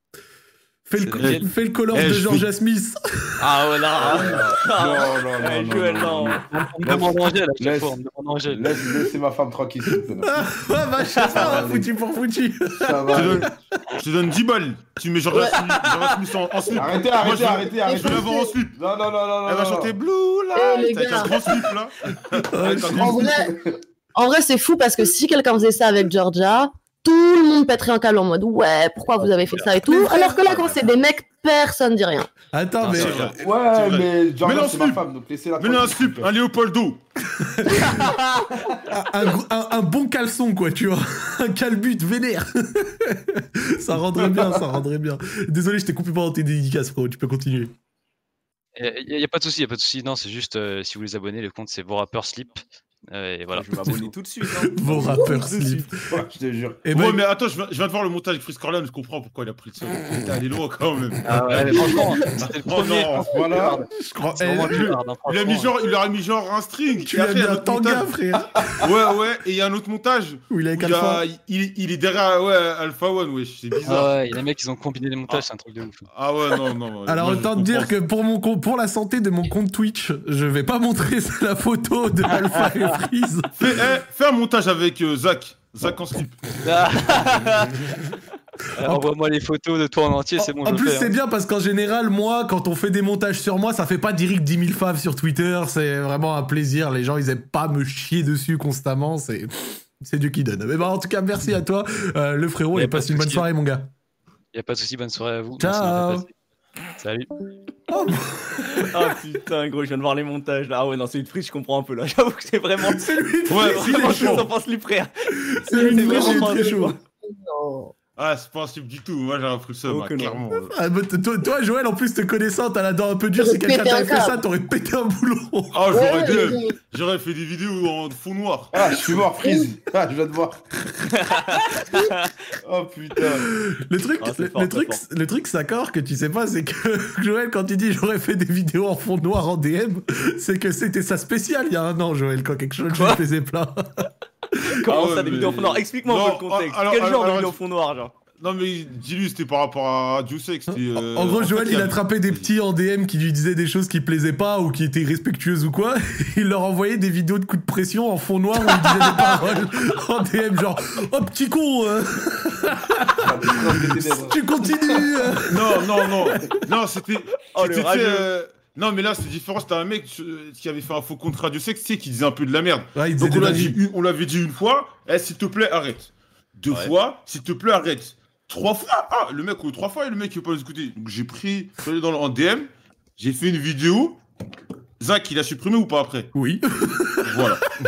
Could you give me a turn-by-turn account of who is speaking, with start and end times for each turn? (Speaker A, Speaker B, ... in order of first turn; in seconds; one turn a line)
Speaker A: 0.9-3.3
Speaker B: 1.0-1.5
Speaker C: 1.2-2.5
Speaker D: 3.4-6.4
Speaker E: 4.0-8.0
Speaker B: 6.5-8.9
Speaker E: 8.5-10.5
Speaker A: 10.2-13.5
Speaker E: 11.2-11.9
Speaker E: 12.8-13.5
Speaker C: 13.1-18.8
Speaker D: 15.8-16.2
Speaker E: 16.8-19.9
Speaker F: 17.8-18.5
Speaker C: 19.5-23.2
Speaker F: 20.5-21.6
Speaker A: 22.5-23.3
Speaker E: 22.7-23.8
Speaker F: 22.9-23.5
Speaker F: 24.1-32.3
Speaker B: 29.4-29.7
Speaker A: 29.9-30.3
Speaker A: 32.5-33.2
Speaker B: 32.8-33.2
Speaker C: 32.9-35.0
Speaker D: 33.0-33.2
Speaker E: 33.4-36.3
Speaker C: 35.6-37.0
Speaker A: 37.4-38.3
Speaker A: 38.9-47.7
Speaker E: 44.2-44.6
Speaker B: 48.8-54.1
Speaker D: 53.5-56.0
Speaker A: 54.6-55.9
Speaker E: 56.1-56.8
Speaker A: 56.9-57.2
Speaker C: 56.9-63.3
Speaker B: 61.2-65.7
Speaker E: 63.1-63.9
Speaker A: 64.0-65.0
Speaker C: 65.2-68.1
Speaker A: 67.0-68.8
Speaker C: 68.8-74.1
Speaker A: 70.5-71.2
Speaker B: 73.9-76.1
Speaker C: 76.1-77.9
Speaker A: 77.1-83.5
Speaker B: 82.5-82.8
Speaker C: 83.6-86.4
Speaker B: 86.6-87.8
Speaker B: 88.8-91.1
Speaker A: 90.4-103.9
Speaker B: 102.8-103.5
Speaker B: 104.5-106.3
Speaker A: 105.6-106.2
Speaker B: 107.0-107.3
Speaker A: 107.9-108.9
Speaker D: 108.8-115.1
Speaker A: 112.9-114.5
Speaker C: 113.5-114.5
Speaker A: 115.4-116.9
Speaker D: 115.7-117.0
Speaker F: 115.7-117.9
Speaker C: 118.2-120.6
Speaker D: 119.9-120.6
Speaker A: 120.7-125.8
Speaker F: 123.4-124.4
Speaker C: 125.7-129.1
Speaker F: 125.9-126.8
Speaker E: 128.7-130.6
Speaker F: 129.4-129.7
Speaker D: 131.1-132.3
Speaker E: 132.6-133.5
Speaker A: 133.5-144.1
Speaker D: 134.2-135.0
Speaker D: 142.9-143.2
Speaker D: 144.8-148.1
Speaker C: 144.8-147.6
Speaker C: 148.4-152.5
Speaker A: 150.7-166.6
Speaker D: 158.8-159.5
Speaker E: 163.2-165.1
Speaker C: 165.5-184.2
Speaker D: 167.5-168.3
Speaker A: 172.9-173.8
Speaker D: 176.7-176.9
Speaker C: 185.0-186.3
Speaker A: 186.3-187.6
Speaker C: 187.2-187.6